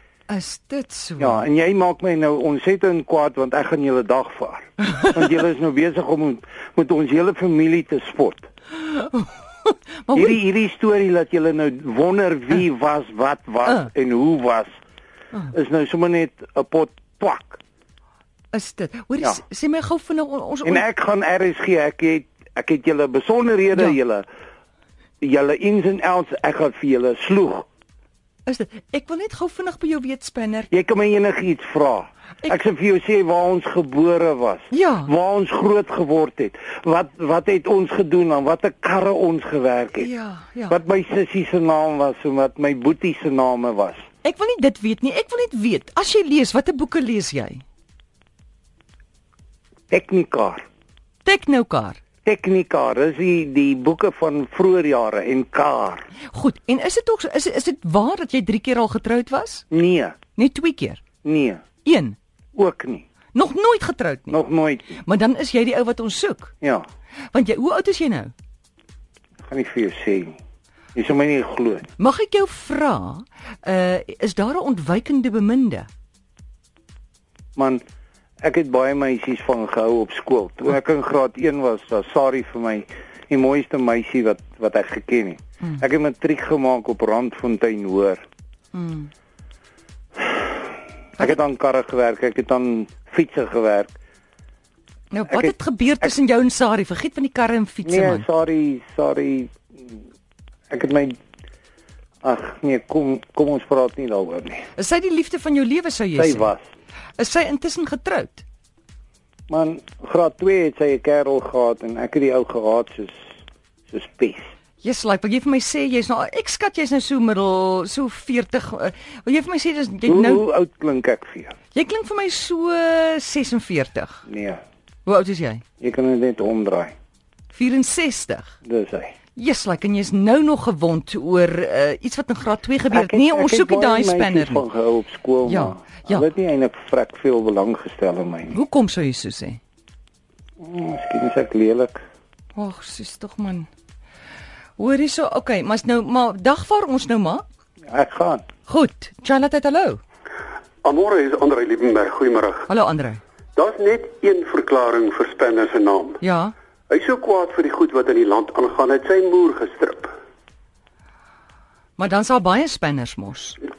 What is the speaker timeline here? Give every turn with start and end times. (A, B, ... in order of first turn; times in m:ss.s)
0:00.3-0:01.4 A
0:01.2-0:08.4 B
0:08.8-0:10.4 A
0:10.1-0:14.7 B
0:15.5-0:17.6 B
0:18.5-0:20.8 A
0:20.6-0:24.2 B
0:25.2-0:27.6 B
0:28.4-0:30.7 A
0:30.7-0:40.1 B
0:34.7-0:35.1 A
0:40.0-0:40.8 A
0:40.7-0:44.0 B
0:44.2-0:47.6 A
0:49.9-0:50.6 B
0:51.2-0:52.0 A
0:52.2-0:56.0 B
0:56.3-0:59.6 A
0:59.7-1:00.2 B
1:00.4-1:01.0 A
1:01.2-1:01.6 B
1:01.8-1:02.2 A
1:02.5-1:03.0 B
1:03.3-1:04.4 A
1:04.3-1:05.0 B
1:05.0-1:06.5 A
1:07.3-1:08.3 A
1:09.4-1:10.4 B
1:10.9-1:11.9 B
1:12.0-1:15.9 A
1:17.6-1:17.8 B
1:18.4-1:28.2 B
1:28.7-1:29.1 A
1:31.2-1:33.9 B
1:35.1-1:38.2 A
1:37.8-1:39.6 B
1:40.7-1:41.1 B
1:42.2-1:44.6 B
1:44.8-1:46.5 A
1:46.2-1:46.6 B
1:47.2-1:48.4 A
1:49.5-1:53.2 B
1:53.9-1:54.5 B
1:54.8-2:00.4 A
2:00.0-2:01.5 B
2:01.7-2:04.2 A
2:04.3-2:04.6 B
2:05.0-2:05.6 A
2:05.8-2:06.9 B
2:07.5-2:08.5 A
2:08.6-2:09.1 B
2:09.4-2:14.6 A
2:12.9-2:18.6 B
2:15.4-2:16.2 A
2:18.5-2:19.6 A
2:20.6-2:22.0 B
2:22.6-2:23.7 A
2:24.8-2:27.4 A
2:27.9-2:28.4 B
2:28.7-2:30.0 A
2:30.8-2:32.7 C
2:32.7-2:33.2 A
2:33.5-2:36.2 C
2:36.2-2:36.5 A
2:36.9-2:40.1 C
2:42.0-2:43.6 A